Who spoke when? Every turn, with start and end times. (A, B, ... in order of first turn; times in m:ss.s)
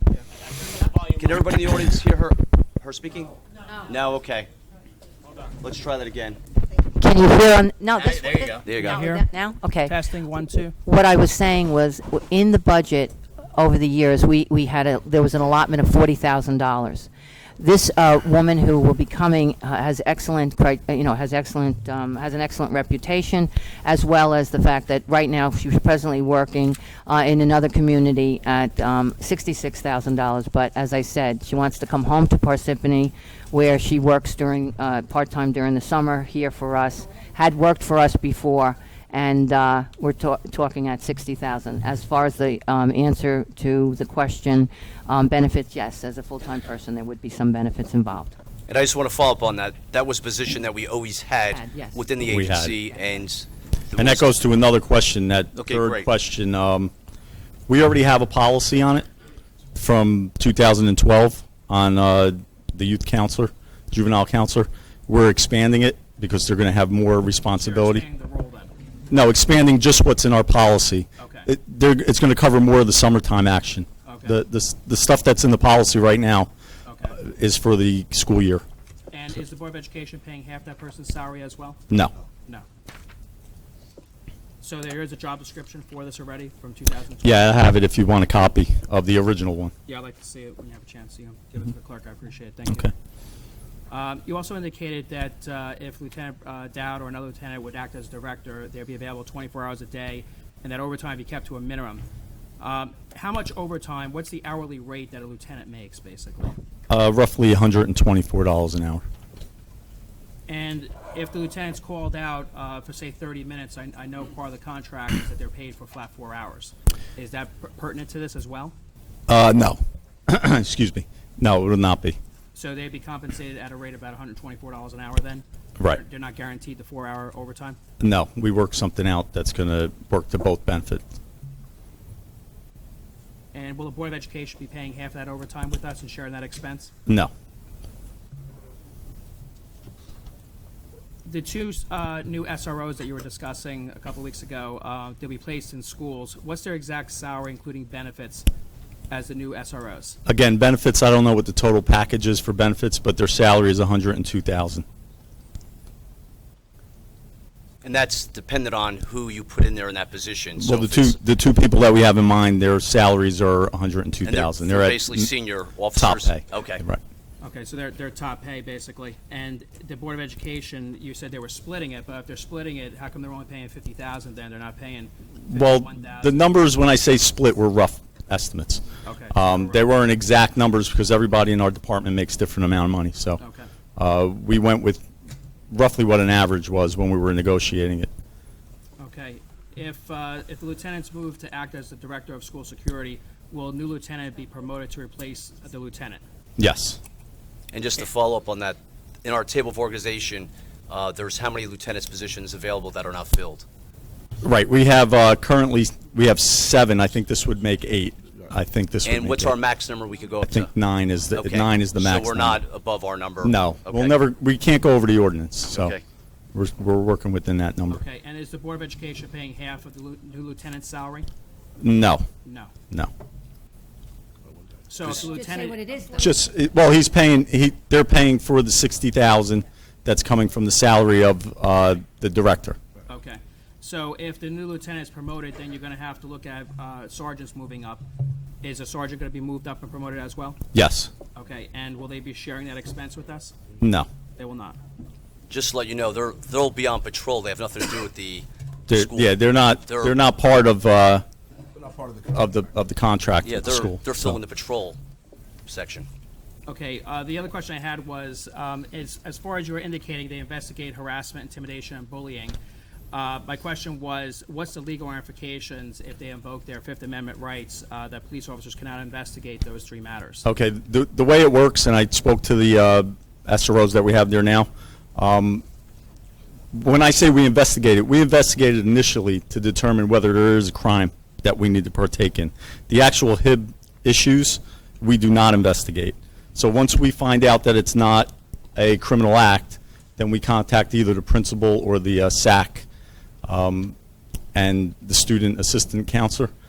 0:01.1-0:04.5 A
0:05.6-0:06.4 A
0:07.0-0:10.0 B
0:08.2-0:08.9 A
0:08.8-0:09.2 C
0:09.8-0:10.7 C
0:10.8-0:17.1 B
0:17.6-0:48.3 B
0:48.7-0:54.3 A
0:51.5-0:51.9 B
0:52.2-0:52.8 D
0:54.0-0:56.9 D
0:55.6-0:56.1 A
0:57.7-0:59.1 D
0:59.8-1:08.0 D
1:07.5-1:08.7 C
1:09.1-1:16.5 D
1:11.2-1:11.5 C
1:14.0-1:14.4 C
1:16.8-1:17.2 C
1:17.2-1:18.6 D
1:19.1-1:21.8 C
1:24.6-1:27.6 C
1:27.2-1:29.7 D
1:29.8-1:32.9 C
1:32.7-1:32.9 D
1:33.9-1:42.0 C
1:42.6-1:46.6 C
1:46.9-1:49.0 D
1:50.5-1:58.7 C
1:59.3-2:02.2 D
2:02.5-2:07.8 C
2:08.0-2:11.0 D
2:13.5-2:16.9 C
2:17.0-2:17.3 D
2:21.2-2:28.5 C
2:29.1-2:30.2 C
2:30.2-2:34.8 D
2:37.8-2:41.1 A
2:40.6-2:45.3 D
2:44.2-2:46.8 A
2:46.0-2:47.0 D
2:47.4-2:56.4 C
2:55.4-3:03.4 D
2:59.0-2:59.8 C
3:03.4-3:03.7 C
3:04.0-3:05.1 D
3:05.7-3:08.1 D
3:09.0-3:16.2 C
3:16.6-3:17.0 D
3:17.7-3:23.6 A
3:24.4-3:29.6 D
3:29.0-3:30.7 A
3:30.4-3:32.6 D
3:31.3-3:34.2 A
3:33.4-3:35.9 D
3:35.7-3:36.0 A
3:36.5-3:38.0 D
3:37.9-3:41.3 C
3:41.8-3:42.3 D
3:42.4-3:42.7 C
3:44.9-3:46.2 C
3:46.1-3:52.8 D
3:53.1-3:58.0 C
3:58.6-4:00.6 C
4:00.7-4:01.1 D
4:01.3-4:03.5 C
4:03.8-4:04.1 D
4:04.4-4:04.8 C
4:05.5-4:09.3 A
4:08.9-4:11.2 D
4:09.9-4:10.1 A
4:12.3-4:14.4 D
4:13.4-4:15.0 A
4:15.7-4:16.1 A
4:16.7-4:22.6 C
4:23.1-4:30.4 C
4:30.4-4:35.6 D
4:36.7-4:52.8 D
4:53.4-4:53.9 D
4:54.5-4:56.5 D